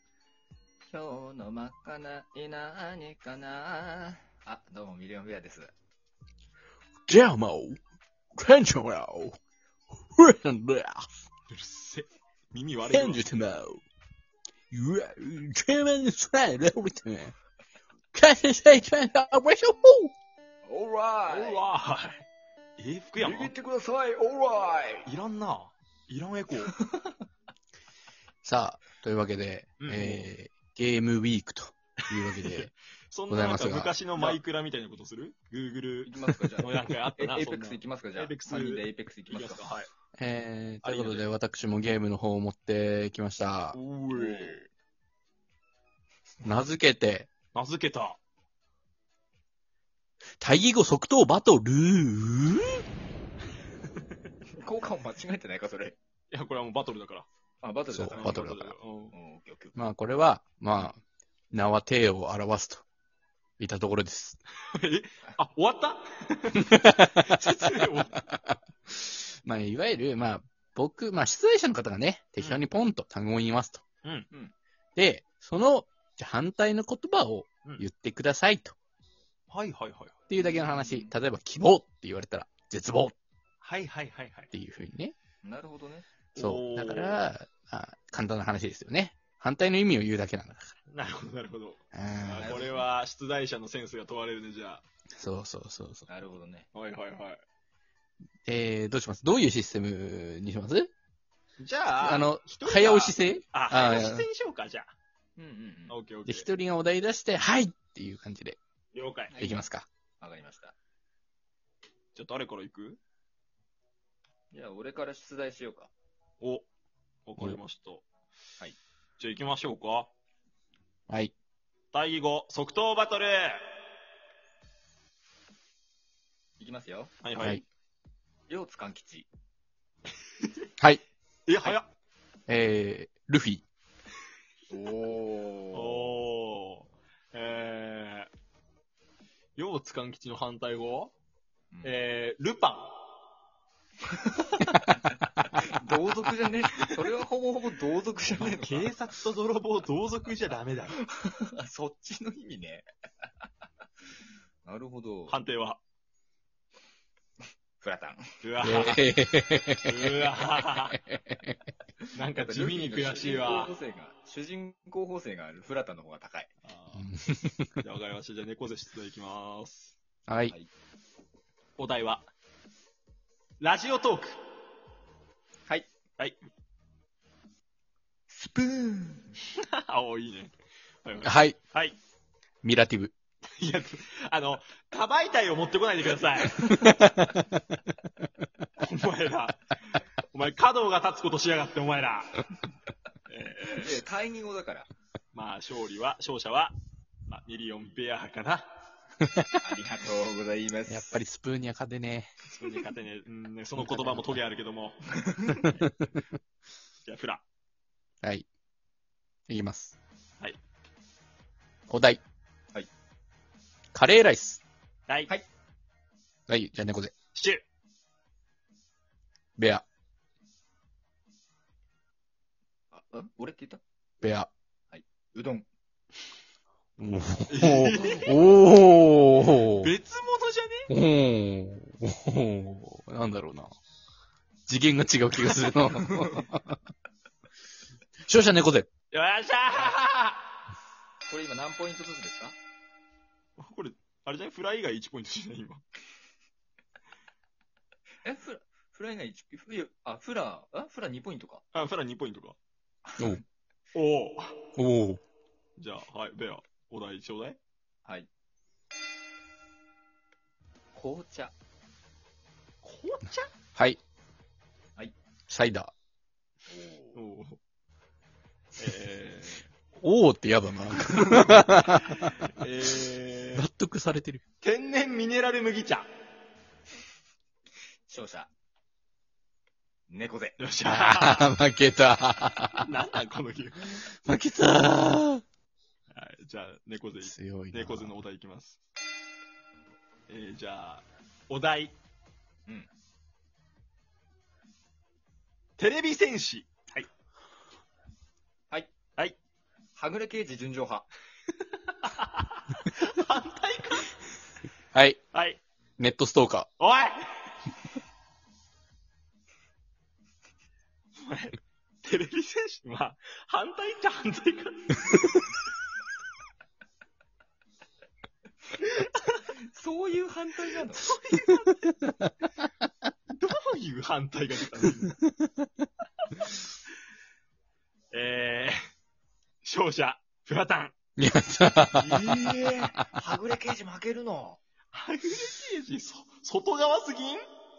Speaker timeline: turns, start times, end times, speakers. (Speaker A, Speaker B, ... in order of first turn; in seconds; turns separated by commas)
Speaker A: 0.9-5.7, Speaker B: 7.1-7.8, Speaker B: 8.3-9.4, Speaker B: 10.1-11.2, Speaker C: 11.5-13.4, Speaker B: 12.9-13.8, Speaker B: 14.7-17.4, Speaker B: 18.1-20.1, Speaker A: 20.6-21.7, Speaker C: 21.3-22.2, Speaker C: 22.8-23.5, Speaker A: 23.2-25.1, Speaker C: 25.1-26.8, Speaker A: 26.7-27.2, Speaker B: 28.4-32.7, Speaker C: 29.8-30.3, Speaker C: 32.1-39.9, Speaker B: 33.3-34.0, Speaker A: 36.0-39.7, Speaker B: 40.2-43.8, Speaker C: 40.8-41.3, Speaker C: 43.7-44.7, Speaker A: 44.1-44.6, Speaker B: 46.4-47.3, Speaker C: 47.5-48.2, Speaker B: 50.4-52.8, Speaker A: 54.5-56.0, Speaker C: 56.3-57.3, Speaker A: 57.6-59.8, Speaker B: 57.9-58.7, Speaker C: 58.0-59.1, Speaker B: 59.8-61.0, Speaker B: 61.5-62.8, Speaker B: 63.6-64.4, Speaker C: 64.7-68.2, Speaker B: 66.7-67.4, Speaker B: 68.3-73.8, Speaker B: 75.0-78.8, Speaker C: 79.5-80.2, Speaker B: 80.3-83.2, Speaker A: 80.4-81.1, Speaker C: 83.6-84.5, Speaker B: 84.5-85.1, Speaker A: 85.4-86.1, Speaker C: 86.3-87.3, Speaker B: 86.4-90.8, Speaker C: 90.9-94.8, Speaker B: 91.9-92.6, Speaker A: 92.4-92.9, Speaker B: 95.2-96.1, Speaker A: 96.1-96.7, Speaker C: 96.7-97.4, Speaker B: 98.5-100.9, Speaker C: 101.6-104.9, Speaker B: 101.9-104.3, Speaker A: 105.4-106.0, Speaker C: 105.9-106.5, Speaker B: 106.2-108.6, Speaker C: 108.9-109.4, Speaker A: 109.3-109.6, Speaker B: 109.4-109.9, Speaker A: 110.2-110.8, Speaker C: 112.1-113.0, Speaker A: 114.5-115.9, Speaker C: 117.2-118.0, Speaker C: 119.2-120.1, Speaker B: 121.1-121.3, Speaker C: 121.9-123.6, Speaker A: 126.6-127.1, Speaker C: 127.2-127.6, Speaker B: 127.4-127.6, Speaker A: 128.5-129.3, Speaker B: 130.8-131.0, Speaker C: 131.5-131.9, Speaker B: 132.5-133.6, Speaker A: 134.7-136.1, Speaker C: 135.7-138.3, Speaker C: 139.6-141.1, Speaker A: 141.7-142.0, Speaker C: 141.8-142.9, Speaker A: 144.1-148.9, Speaker C: 148.3-151.0, Speaker A: 150.9-152.9, Speaker A: 154.6-155.4, Speaker C: 155.3-155.8, Speaker A: 157.8-158.3, Speaker C: 158.4-159.1, Speaker B: 158.6-160.3, Speaker C: 159.8-161.0, Speaker B: 160.9-161.5, Speaker C: 162.1-163.7, Speaker A: 162.3-166.5, Speaker C: 166.6-167.2, Speaker B: 166.9-167.8, Speaker C: 167.8-169.9, Speaker B: 170.3-170.5, Speaker C: 171.8-172.3, Speaker C: 173.6-174.4, Speaker A: 178.3-179.3, Speaker C: 179.5-180.5, Speaker C: 181.0-182.0, Speaker B: 181.2-181.6, Speaker B: 182.6-183.1, Speaker C: 183.6-186.9, Speaker B: 186.7-187.8, Speaker C: 188.8-192.5, Speaker C: 193.3-194.0, Speaker A: 193.7-194.9, Speaker C: 195.3-196.8, Speaker C: 197.3-198.7, Speaker B: 199.2-199.5, Speaker A: 199.6-201.2, Speaker B: 200.9-202.5, Speaker C: 202.5-205.8, Speaker B: 203.8-204.4, Speaker A: 205.1-205.7, Speaker B: 205.8-206.2, Speaker C: 207.1-207.4, Speaker B: 208.2-208.5, Speaker B: 209.5-210.0, Speaker B: 211.9-212.2, Speaker B: 213.9-214.6, Speaker B: 216.5-217.1, Speaker C: 217.3-217.6, Speaker B: 219.6-219.8, Speaker A: 222.9-223.8, Speaker B: 224.2-224.5, Speaker A: 224.9-225.7, Speaker B: 227.0-229.9, Speaker C: 227.5-228.5, Speaker C: 229.6-230.9, Speaker B: 230.9-233.7, Speaker B: 234.7-236.8, Speaker B: 238.2-238.9, Speaker C: 239.1-240.4, Speaker A: 241.3-242.6, Speaker C: 243.6-245.8, Speaker A: 248.2-251.6, Speaker C: 251.7-252.6, Speaker A: 253.1-253.4, Speaker C: 253.9-254.7, Speaker B: 254.8-255.2, Speaker C: 255.8-257.6, Speaker A: 260.9-261.5, Speaker C: 262.8-263.5, Speaker B: 265.5-265.9, Speaker A: 266.7-267.2, Speaker C: 267.1-267.6, Speaker C: 268.7-269.7, Speaker B: 270.0-272.6, Speaker C: 271.5-273.6, Speaker B: 273.5-274.4, Speaker C: 274.6-276.1, Speaker A: 278.1-278.5, Speaker A: 280.1-280.6, Speaker C: 280.6-281.6, Speaker B: 280.8-282.9, Speaker C: 282.7-284.0, Speaker B: 283.9-285.4, Speaker C: 286.1-288.8, Speaker B: 287.2-288.2, Speaker C: 290.3-291.9, Speaker C: 295.8-297.1, Speaker A: 299.9-301.1, Speaker C: 301.6-304.1, Speaker B: 304.9-305.2, Speaker C: 305.3-305.6, Speaker B: 306.0-306.7, Speaker C: 306.8-307.2, Speaker C: 311.1-315.3, Speaker C: 318.8-319.4, Speaker A: 319.5-321.1, Speaker C: 321.0-322.1, Speaker C: 323.3-325.2, Speaker B: 325.4-325.7, Speaker C: 326.2-326.6, Speaker C: 328.1-328.8, Speaker C: 329.6-330.9, Speaker B: 331.2-332.4, Speaker C: 332.0-332.9, Speaker A: 332.4-334.6, Speaker C: 334.9-337.4